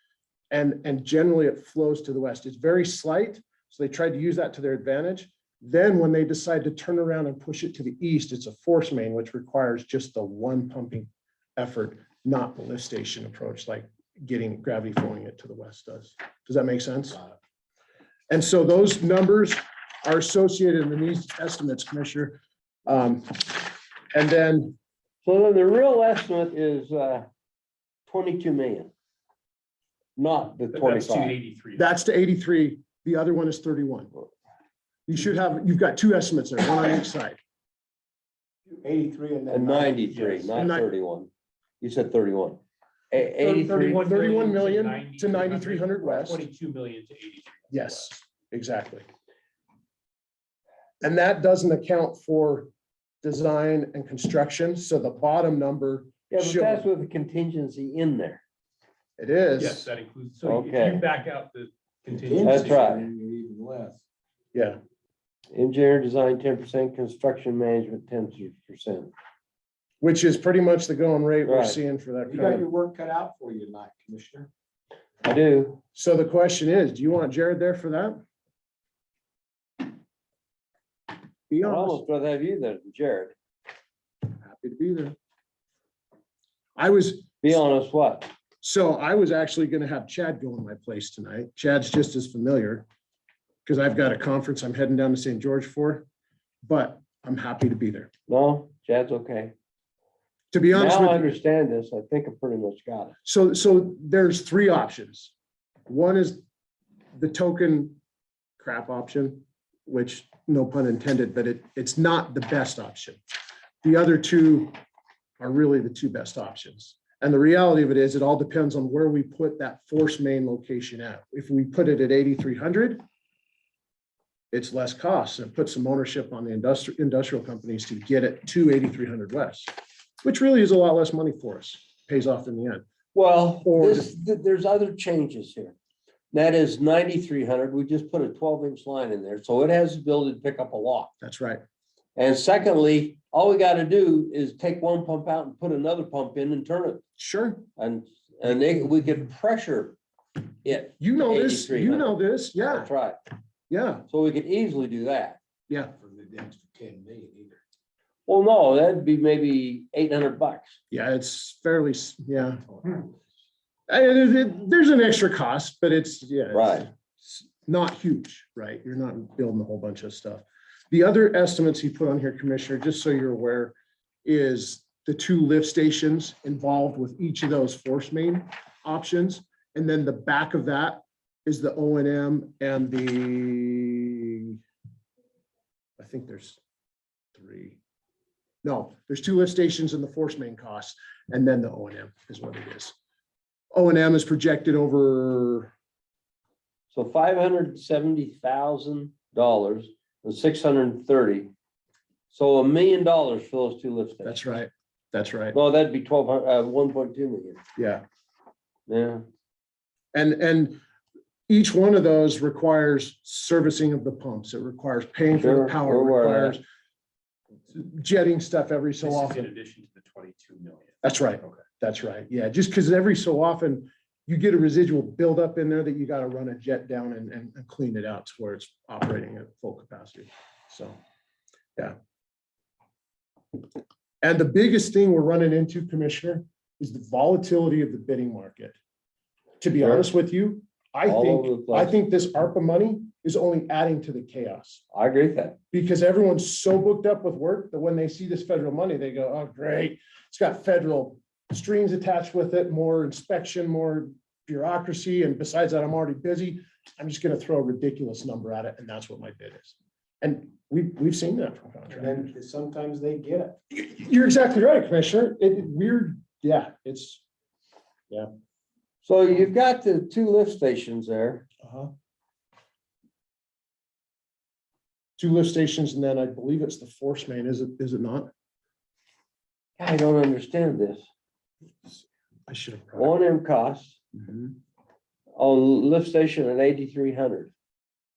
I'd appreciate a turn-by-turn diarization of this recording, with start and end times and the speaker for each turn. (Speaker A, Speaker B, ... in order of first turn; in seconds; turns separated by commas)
Speaker A: 0.5-17.2, Speaker A: 18.3-24.7, Speaker B: 25.2-27.3, Speaker B: 28.1-28.9, Speaker B: 30.2-31.4, Speaker C: 30.7-31.9, Speaker A: 31.8-34.1, Speaker A: 35.1-37.4, Speaker D: 38.8-40.5, Speaker B: 39.5-41.3, Speaker C: 40.1-40.5, Speaker A: 40.5-40.9, Speaker B: 41.8-42.6, Speaker B: 43.1-44.1, Speaker C: 43.4-48.1, Speaker A: 43.9-46.4, Speaker A: 47.7-49.0, Speaker A: 51.0-52.7, Speaker A: 53.2-56.9, Speaker B: 56.3-58.4, Speaker A: 59.2-59.9, Speaker C: 59.6-62.9, Speaker B: 60.4-61.0, Speaker D: 62.1-64.0, Speaker B: 62.5-63.1, Speaker A: 64.5-64.8, Speaker B: 65.5-69.1, Speaker A: 70.0-72.7, Speaker B: 71.5-71.8, Speaker D: 72.2-74.5, Speaker B: 75.2-75.8, Speaker A: 76.0-78.2, Speaker A: 81.5-82.0, Speaker B: 81.6-83.3, Speaker A: 84.4-85.2, Speaker A: 86.8-87.6, Speaker B: 87.4-88.3, Speaker A: 88.6-92.9, Speaker A: 93.7-96.1, Speaker A: 96.6-98.1, Speaker B: 98.3-99.5, Speaker A: 100.5-101.3, Speaker B: 100.7-103.2, Speaker A: 103.2-105.3, Speaker A: 105.9-106.4, Speaker A: 107.2-108.0, Speaker A: 108.6-113.2, Speaker A: 113.8-114.8, Speaker A: 115.4-123.0, Speaker A: 124.5-129.7, Speaker A: 130.2-132.9, Speaker B: 133.1-135.8, Speaker A: 133.7-134.1, Speaker B: 136.3-141.1, Speaker A: 141.2-141.6, Speaker B: 142.2-147.0, Speaker A: 147.2-147.7, Speaker B: 147.8-150.0, Speaker B: 150.6-152.2, Speaker A: 151.0-152.9, Speaker B: 152.7-153.2, Speaker A: 153.7-154.0, Speaker B: 154.1-155.4, Speaker D: 155.9-157.6, Speaker B: 158.3-160.8, Speaker A: 160.9-163.1, Speaker A: 163.9-184.6, Speaker B: 166.5-166.9, Speaker A: 186.0-186.6, Speaker A: 187.3-187.8, Speaker A: 188.6-192.9, Speaker A: 193.7-195.7, Speaker B: 196.9-201.5, Speaker B: 202.3-204.6, Speaker A: 204.2-205.6, Speaker B: 205.5-207.6, Speaker A: 207.8-208.0, Speaker B: 208.9-209.2, Speaker A: 210.1-210.8, Speaker A: 211.5-216.6, Speaker B: 215.4-216.6, Speaker A: 217.7-219.5, Speaker C: 219.0-221.0, Speaker A: 221.0-231.0, Speaker A: 234.2-238.8, Speaker A: 239.6-244.8, Speaker B: 241.1-241.9, Speaker B: 244.9-245.6, Speaker A: 245.7-262.3, Speaker D: 261.9-263.6, Speaker A: 263.7-267.2, Speaker B: 269.0-271.5, Speaker A: 271.6-271.9, Speaker A: 275.2-278.3, Speaker B: 279.8-281.1, Speaker A: 281.9-283.1, Speaker B: 283.0-284.0, Speaker A: 284.1-284.5, Speaker B: 285.4-287.5